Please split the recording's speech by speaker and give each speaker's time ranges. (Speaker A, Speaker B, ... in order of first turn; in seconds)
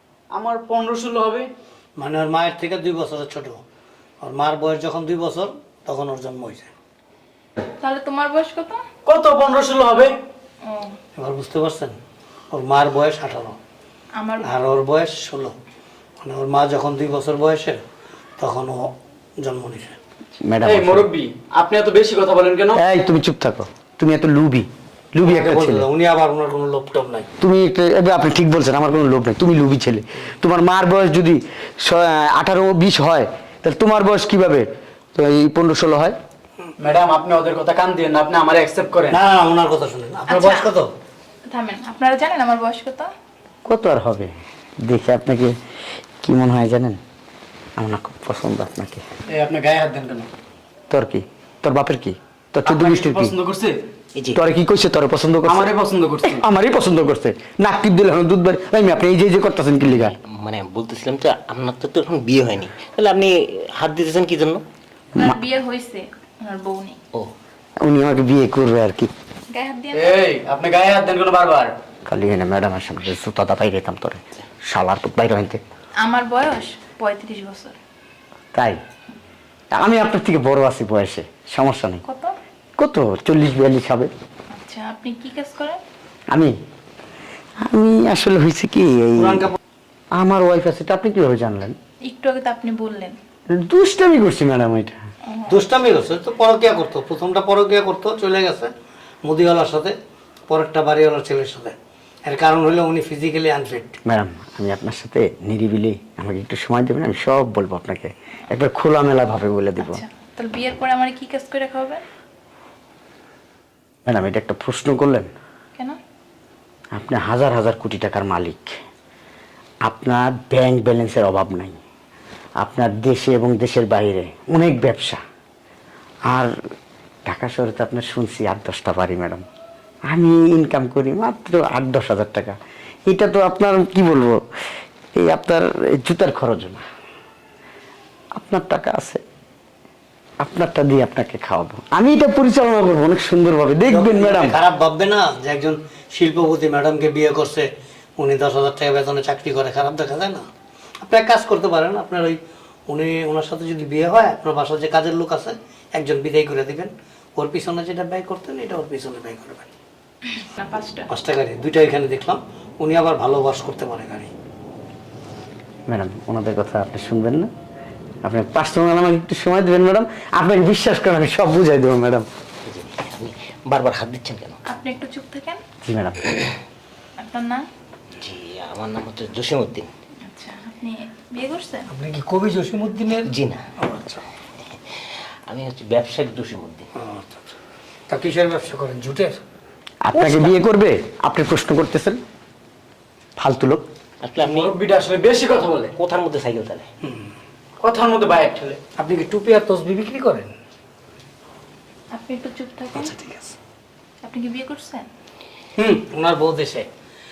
Speaker A: 0.3-1.5, 9.1-10.2, 20.6-22.8, 36.8-39.2, 49.3-50.3, 52.7-53.8, 55.5-56.4, 69.9-71.7, 194.4-195.9, 197.8-198.8
Speaker B: 2.0-3.6, 4.2-6.7, 11.2-12.0, 12.5-13.6, 14.4-15.6, 16.2-17.8, 18.4-20.0, 25.2-27.3, 39.1-40.9, 89.2-89.6, 95.5-98.7, 99.2-100.0, 100.5-104.0, 143.9-150.5, 151.0-159.7, 161.1-164.3, 181.9-184.2, 186.9-187.5, 188.1-189.4, 197.0-197.3, 199.0-200.5, 202.9-203.5, 205.8-206.9
Speaker C: 7.8-8.8, 10.6-10.9, 14.2-14.5, 40.3-40.7, 41.4-43.1, 65.2-67.0, 69.5-70.2, 76.0-77.8, 82.0-82.3, 84.5-85.8, 92.0-93.2, 95.3-95.6, 109.8-112.0, 160.4-161.1, 174.7-175.6, 177.2-177.7, 180.3-181.9, 202.1-203.1, 204.2-205.1
Speaker D: 20.4-21.1, 22.8-25.9, 27.4-36.1, 43.7-44.3, 44.8-45.6, 46.2-47.0, 47.8-49.0, 50.9-53.3, 54.4-55.7, 56.3-60.2, 67.8-69.1, 72.1-75.6, 79.7-82.0, 82.8-84.1, 87.6-89.5, 90.2-91.8, 93.5-95.0, 104.1-110.0, 114.1-115.3, 116.9-118.8, 119.8-121.8, 122.6-125.2, 127.3-129.4, 130.1-132.6, 133.1-134.4, 135.2-136.8, 138.4-139.2, 140.4-144.6, 165.9-167.5, 168.2-172.3, 175.8-176.2, 190.1-192.2, 193.4-193.8
Speaker E: 59.9-64.6, 172.7-174.6, 178.2-179.9, 183.3-183.6, 185.5-186.9, 190.1-190.6, 194.2-194.7, 195.9-196.9